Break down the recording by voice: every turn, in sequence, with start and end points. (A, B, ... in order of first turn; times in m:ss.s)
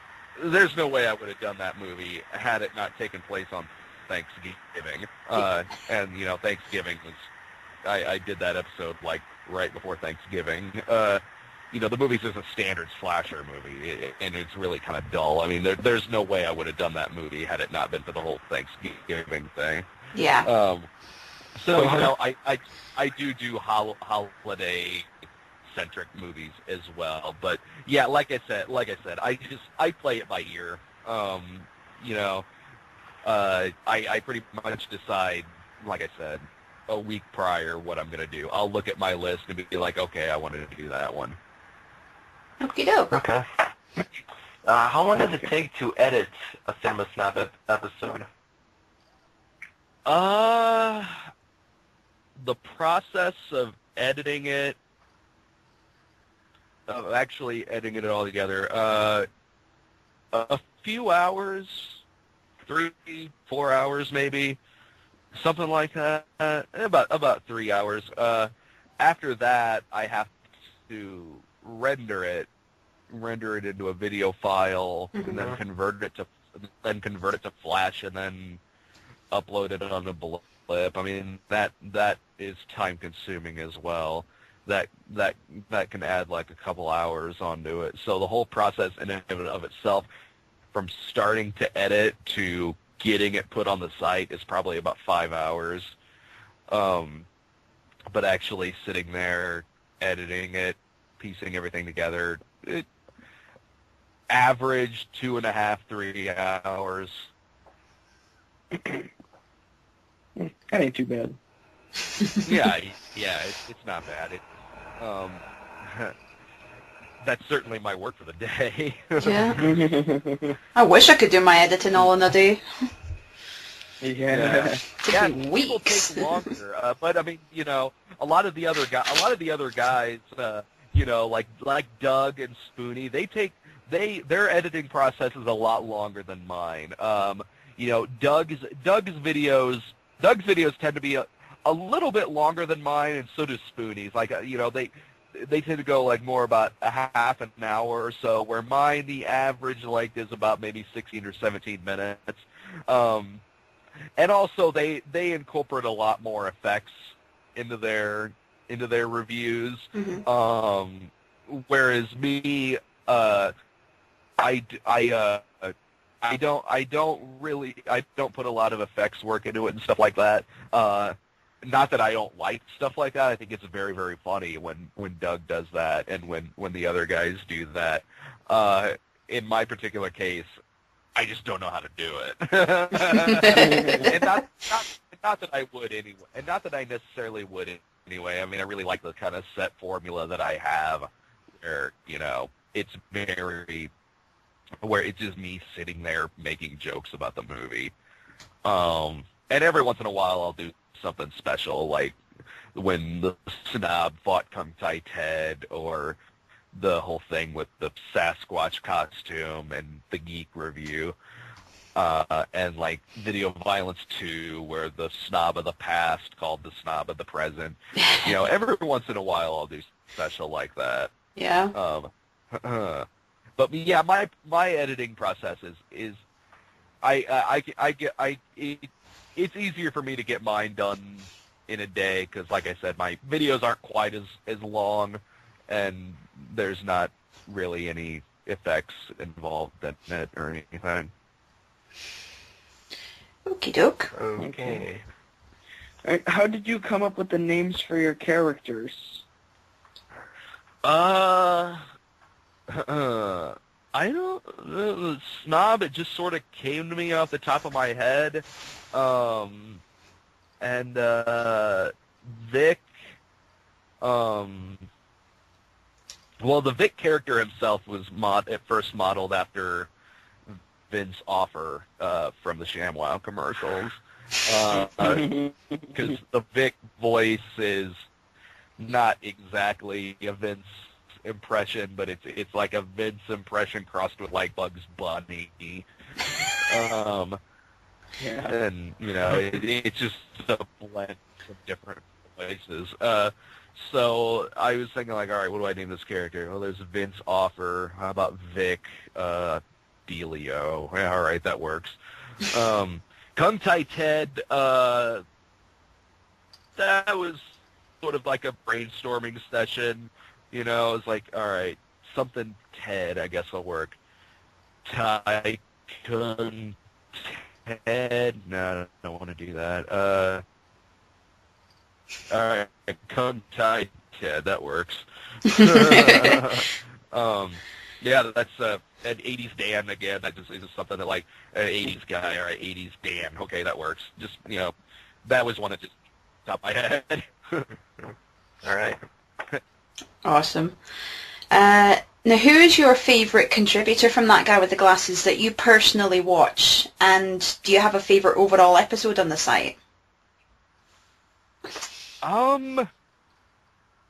0:00.4-0:07.3 A
0:07.8-0:19.8 A
0:20.1-0:20.5 B
0:20.4-0:20.9 A
0:21.5-0:25.1 A
0:25.7-0:32.4 A
0:33.2-0:41.4 A
0:42.6-0:43.1 B
0:43.1-0:43.4 C
0:44.6-0:48.3 C
0:50.0-0:51.3 A
0:52.4-0:54.8 A
0:56.9-0:59.2 A
1:00.3-1:02.0 A
1:02.6-1:04.6 A
1:05.3-1:12.5 A
1:13.1-1:18.6 A
1:15.3-1:15.6 C
1:19.3-1:30.1 A
1:30.7-1:35.9 A
1:36.7-1:37.3 A
1:38.1-1:42.9 A
1:44.3-1:47.3 A
1:48.7-1:49.1 D
1:50.4-1:51.4 D
1:52.2-1:52.4 B
1:52.4-1:54.4 A
1:55.0-1:56.1 A
1:57.2-1:59.6 A
1:59.2-1:59.6 B
1:59.6-2:00.6 D
2:00.8-2:02.6 B
2:04.0-2:04.8 D
2:04.3-2:33.4 A
2:05.0-2:06.3 B
2:34.2-2:43.5 A
2:39.9-2:40.2 B
2:44.4-3:00.5 A
3:01.2-3:11.1 A
3:03.1-3:04.0 B
3:03.5-3:04.2 D
3:11.6-3:13.9 A
3:14.8-3:17.9 A
3:18.6-3:22.2 A
3:22.7-3:26.2 A
3:26.7-3:31.1 A
3:31.9-3:41.1 A
3:38.0-3:38.2 B
3:41.4-3:41.7 B
3:41.7-3:46.2 A
3:47.0-4:01.1 A
4:03.4-4:04.1 B
4:04.1-4:05.0 C
4:04.4-4:04.8 D
4:06.0-4:09.2 D
4:10.8-4:11.8 A
4:12.7-4:19.8 A
4:20.6-4:22.9 A
4:24.0-4:24.9 A
4:26.4-4:29.9 A
4:30.5-4:35.3 A
4:34.9-4:36.2 D
4:35.9-4:38.0 A
4:38.8-4:45.8 A
4:46.6-4:47.4 A
4:48.2-4:48.6 D
4:48.5-5:05.2 A
5:06.8-5:14.0 A
5:14.8-5:20.4 A
5:22.3-5:34.7 A
5:25.5-5:26.4 B
5:35.2-5:37.7 A
5:38.6-5:39.0 C
5:40.2-5:40.8 B
5:41.5-5:49.8 B
5:52.2-5:52.9 A